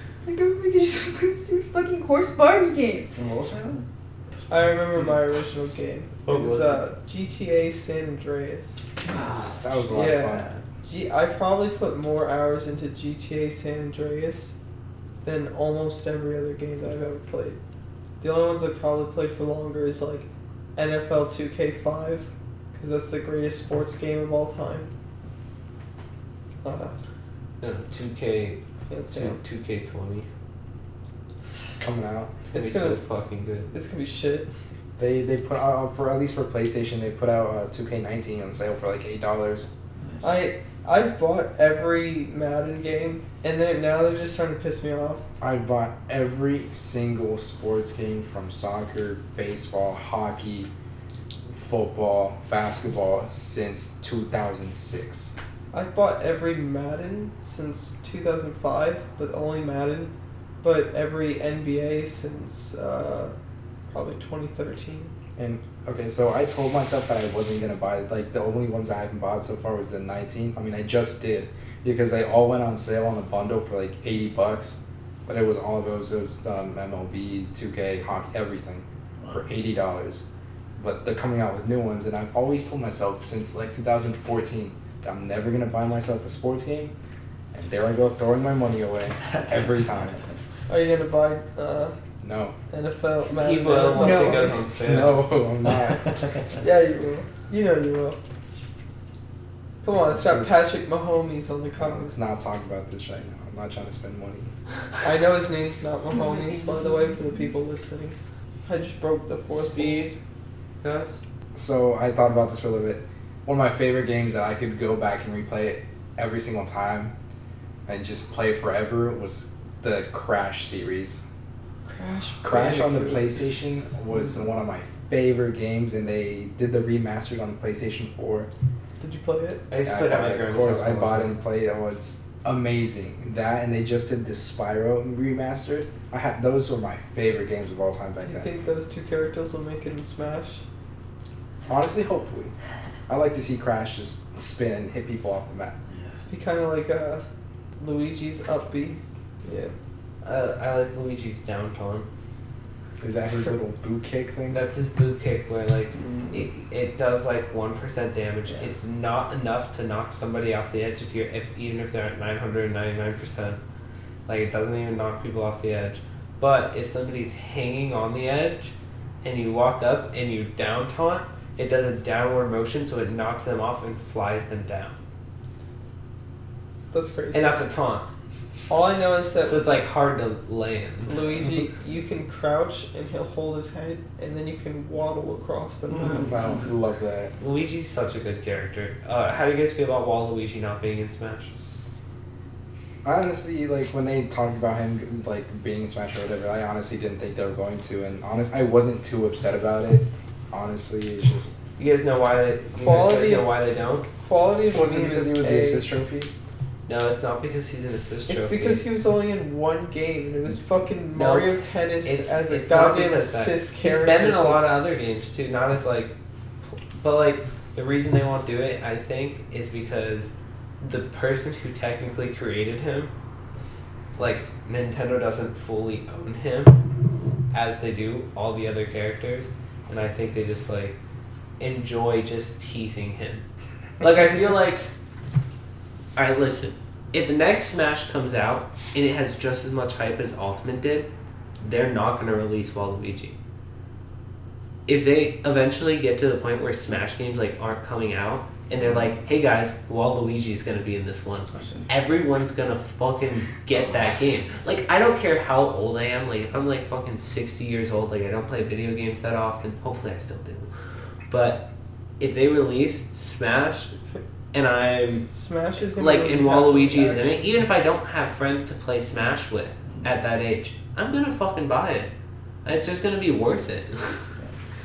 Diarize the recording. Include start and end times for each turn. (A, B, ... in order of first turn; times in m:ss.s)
0:00.2-0:03.1 A
0:03.2-0:03.8 B
0:04.5-0:08.8 C
0:06.2-0:06.8 D
0:09.0-0:10.6 B
0:09.6-0:10.5 E
0:09.9-0:14.5 C
0:15.2-0:17.6 C
0:18.2-0:24.9 C
0:26.6-0:27.0 C
0:27.6-0:28.6 D
0:28.9-0:29.4 C
0:29.1-0:30.3 D
0:31.7-0:32.3 E
0:32.5-0:33.0 C
0:32.5-0:33.7 D
0:33.7-0:34.5 C
0:35.0-0:39.7 E
0:40.0-0:40.3 B
0:40.2-0:45.2 C
0:45.4-0:50.7 E
0:51.5-0:55.3 E
0:55.7-1:03.3 C
1:03.9-1:05.1 C
1:05.4-1:20.2 E
1:20.8-1:26.9 E
1:27.5-1:30.2 E
1:30.7-1:31.9 C
1:32.2-1:32.5 E
1:32.7-1:34.6 C
1:33.3-1:35.2 D
1:33.9-1:34.6 A
1:34.8-1:36.4 E
1:36.6-1:38.2 C
1:39.8-1:42.1 C
1:40.0-1:40.6 E
1:41.8-1:44.5 E
1:45.0-1:50.2 C
1:46.1-1:47.4 A
1:49.5-1:50.1 D
1:50.8-1:51.2 D
1:51.5-1:57.1 E
1:57.9-2:01.2 E
2:01.8-2:03.4 C
2:02.4-2:08.5 E
2:09.0-2:09.6 C
2:09.7-2:11.3 D
2:09.8-2:18.5 E
2:18.2-2:20.6 C
2:21.7-2:22.5 E
2:23.1-2:25.7 E
2:26.3-2:27.2 C
2:27.8-2:29.7 C
2:30.2-2:32.1 D
2:33.0-2:34.6 E
2:34.5-2:43.6 D
2:35.9-2:36.5 B
2:44.3-2:55.0 D
2:56.9-2:57.6 C
2:57.3-2:58.0 D
2:58.7-2:59.8 C
2:59.4-3:01.2 D
3:01.1-3:06.3 C
3:06.2-3:07.3 E
3:07.4-3:11.5 D
3:13.0-3:21.5 E
3:21.8-3:24.1 D
3:22.8-3:23.5 C
3:24.1-3:25.9 C
3:24.7-3:26.3 E
3:26.8-3:28.8 D
3:28.3-3:34.6 C
3:31.1-3:36.1 D
3:36.9-3:43.1 D
3:44.2-3:46.8 D
3:47.5-3:50.9 D
3:51.6-3:53.4 D
3:54.0-3:54.8 D
3:56.2-4:01.1 D
4:01.6-4:03.3 D
4:04.9-4:20.7 D
4:11.5-4:11.9 B
4:21.3-4:21.6 D
4:22.2-4:23.9 D
4:24.5-4:25.3 D
4:25.3-4:27.5 C
4:25.8-4:32.1 D
4:32.6-4:34.3 D